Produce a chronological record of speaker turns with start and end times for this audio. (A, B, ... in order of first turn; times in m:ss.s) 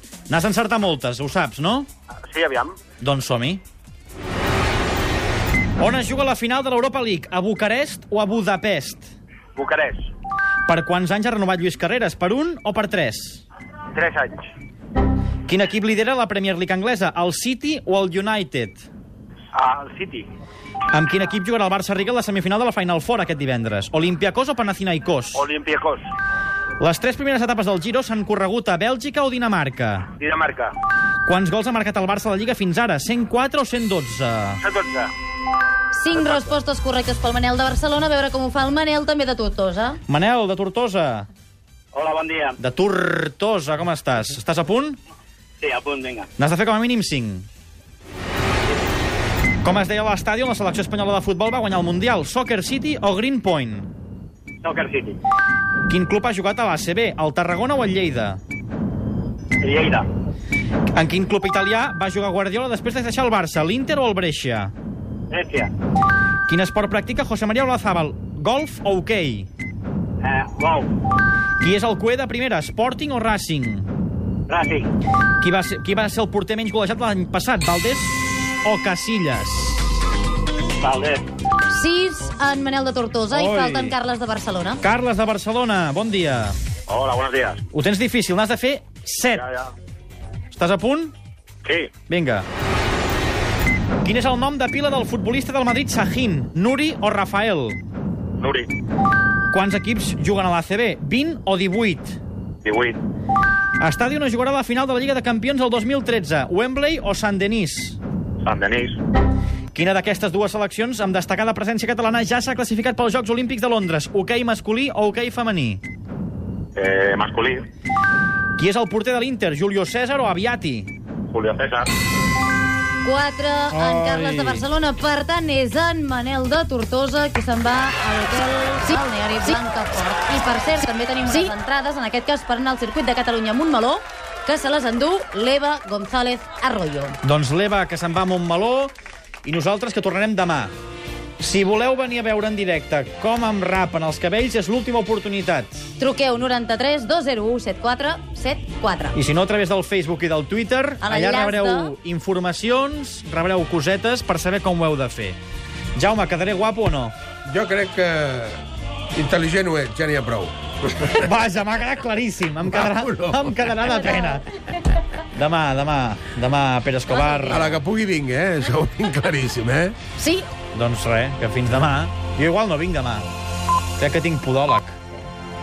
0:00.3-0:01.9 A
0:02.3-0:02.8 B
0:03.0-0:03.6 A
0:05.8-0:09.1 A
0:09.6-0:10.0 B
0:10.7-0:13.4 A
0:14.0-0:14.5 B
0:15.5-0:18.9 A
0:19.5-0:20.3 B
0:20.9-0:25.5 A
0:25.3-0:26.0 B
0:26.8-0:30.1 A
0:30.2-0:30.8 B
0:31.3-0:34.6 A
0:34.6-0:35.1 B
0:35.9-0:40.0 C
0:40.1-0:41.3 A
0:41.9-0:42.6 B
0:42.6-0:45.0 A
0:45.6-0:46.3 B
0:46.4-0:47.5 A
0:49.6-0:53.9 A
0:54.6-0:55.2 B
0:55.9-0:58.4 A
0:59.6-1:00.1 B
1:00.9-1:04.7 A
1:05.3-1:05.7 B
1:06.5-1:09.5 A
1:10.2-1:10.9 B
1:11.6-1:13.9 A
1:14.5-1:14.9 B
1:15.4-1:20.0 A
1:20.8-1:21.3 B
1:21.7-1:24.8 C
1:23.3-1:24.0 A
1:24.8-1:26.6 A
1:26.9-1:27.4 D
1:27.0-1:27.6 B
1:27.7-1:29.5 A
1:30.5-1:31.1 A
1:32.1-1:32.5 A
1:34.0-1:37.8 A
1:38.4-1:38.7 D
1:39.5-1:42.2 A
1:42.6-1:43.0 D
1:43.8-1:48.0 A
1:48.4-1:49.0 D
1:49.7-1:55.8 A
1:56.8-1:57.7 D
1:58.6-2:00.9 A
2:01.3-2:01.9 D
2:03.0-2:17.2 C
2:03.7-2:04.7 A
2:17.2-2:18.9 A
2:19.4-2:20.7 A
2:21.4-2:25.9 A
2:26.0-2:29.2 C
2:29.1-2:35.4 A
2:31.0-2:31.9 C
2:36.0-2:37.2 A
2:37.5-2:38.6 E
2:39.1-2:40.5 E
2:41.0-2:44.5 A
2:43.0-2:43.4 E
2:45.3-2:47.7 A
2:47.5-2:50.0 E
2:50.7-2:53.3 A
2:54.0-2:55.0 A